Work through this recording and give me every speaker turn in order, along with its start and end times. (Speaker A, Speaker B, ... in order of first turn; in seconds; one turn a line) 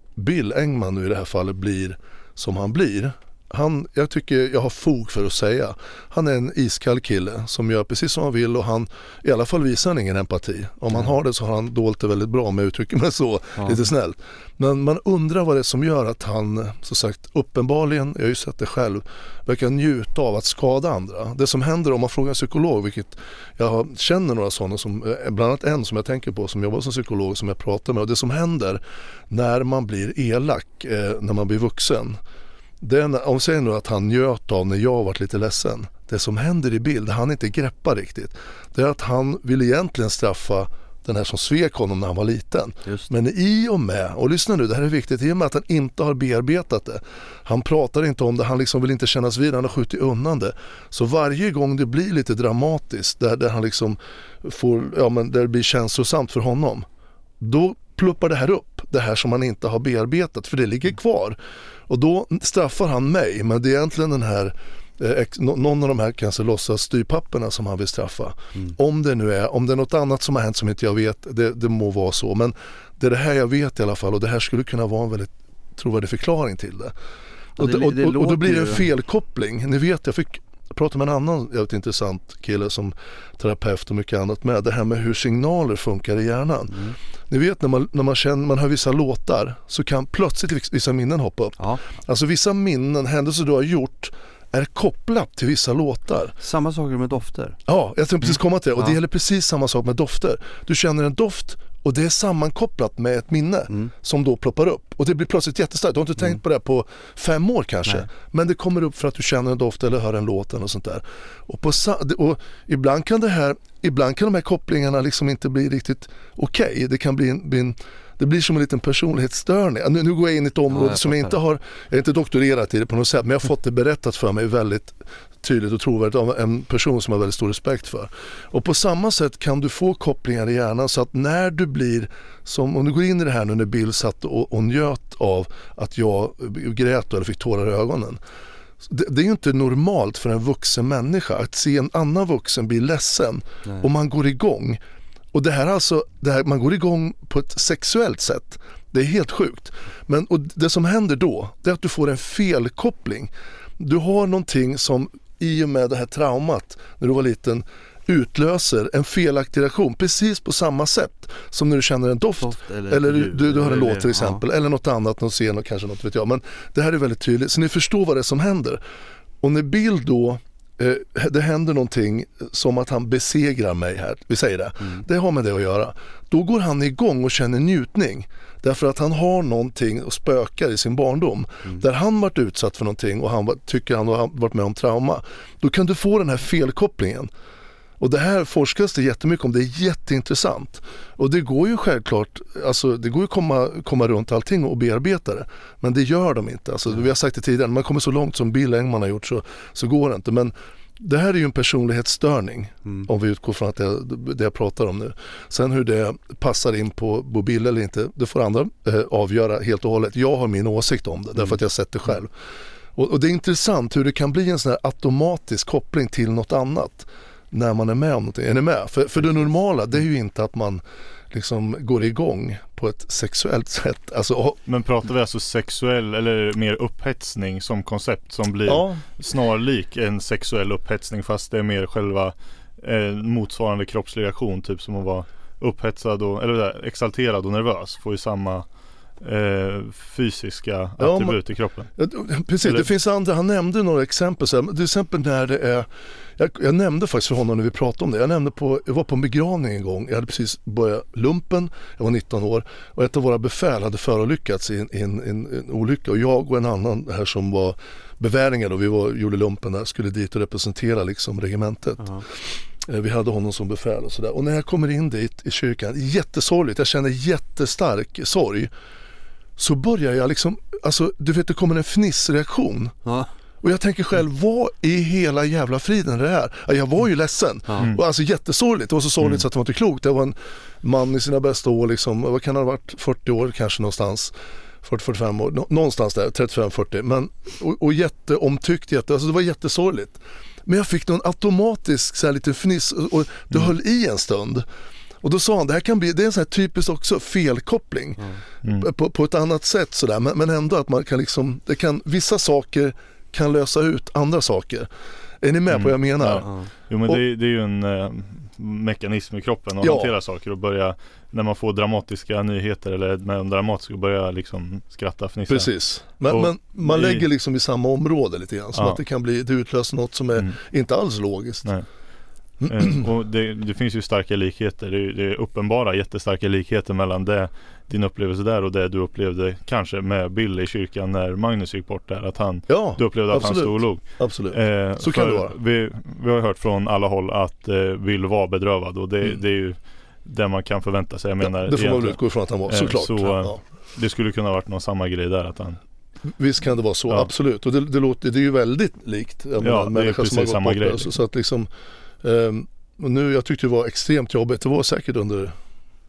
Speaker A: 0.2-32.2
Speaker B: 13.6-13.8
Speaker A: 32.8-56.9
Speaker B: 42.9-43.1
Speaker A: 57.4-76.9
Speaker B: 77.6-78.9
Speaker A: 77.6-86.8
Speaker B: 86.7-87.0
Speaker A: 87.3-96.4
Speaker B: 96.4-97.6
Speaker A: 97.7-138.2
Speaker B: 120.7-121.4
Speaker A: 138.8-144.8
Speaker A: 145.3-168.8
Speaker B: 162.4-164.4
Speaker A: 169.4-187.3
Speaker A: 188.0-212.3
Speaker A: 212.9-224.6
Speaker C: 224.7-238.7
Speaker A: 228.7-229.1
Speaker C: 239.2-241.9
Speaker A: 241.0-268.7
Speaker B: 262.0-262.2
Speaker A: 269.6-272.9
Speaker B: 273.1-273.3
Speaker A: 273.6-294.6
Speaker A: 295.2-304.9
Speaker A: 305.4-306.5
Speaker C: 305.7-315.7
Speaker B: 306.4-306.7
Speaker A: 309.8-310.1
Speaker A: 315.5-321.7
Speaker C: 316.3-317.2
Speaker A: 322.6-323.0
Speaker C: 322.7-345.8
Speaker A: 332.7-335.5
Speaker A: 341.4-343.6
Speaker A: 346.3-351.7
Speaker C: 349.6-351.1
Speaker A: 352.2-355.6